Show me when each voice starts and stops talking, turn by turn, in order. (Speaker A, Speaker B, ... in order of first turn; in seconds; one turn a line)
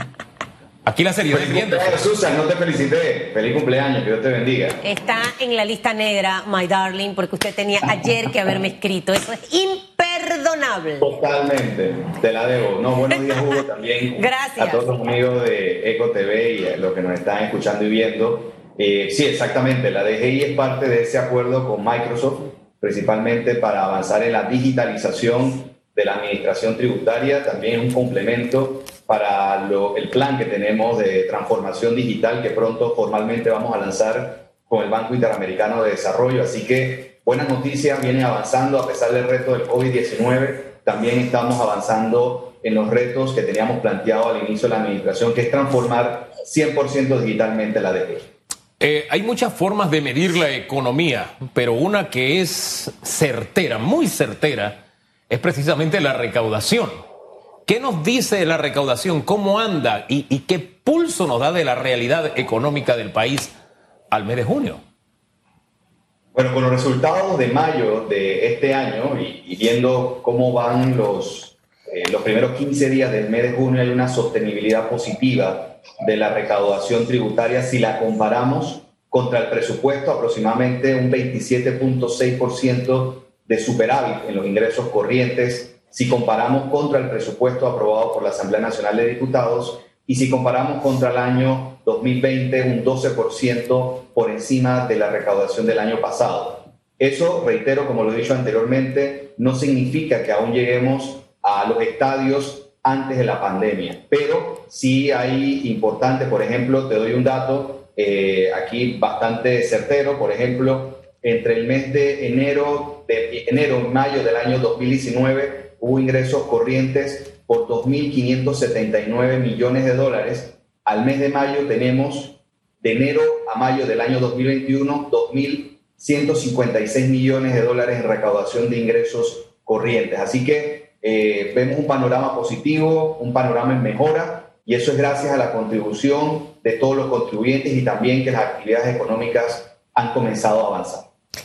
Speaker A: 0.8-2.1
Speaker B: 1.3-4.8
Speaker C: 4.8-11.1
Speaker B: 11.0-48.3
Speaker C: 13.1-13.6
Speaker C: 14.1-14.8
Speaker A: 48.8-57.0
Speaker A: 57.6-63.5
Speaker A: 64.1-64.8
Speaker B: 66.3-141.1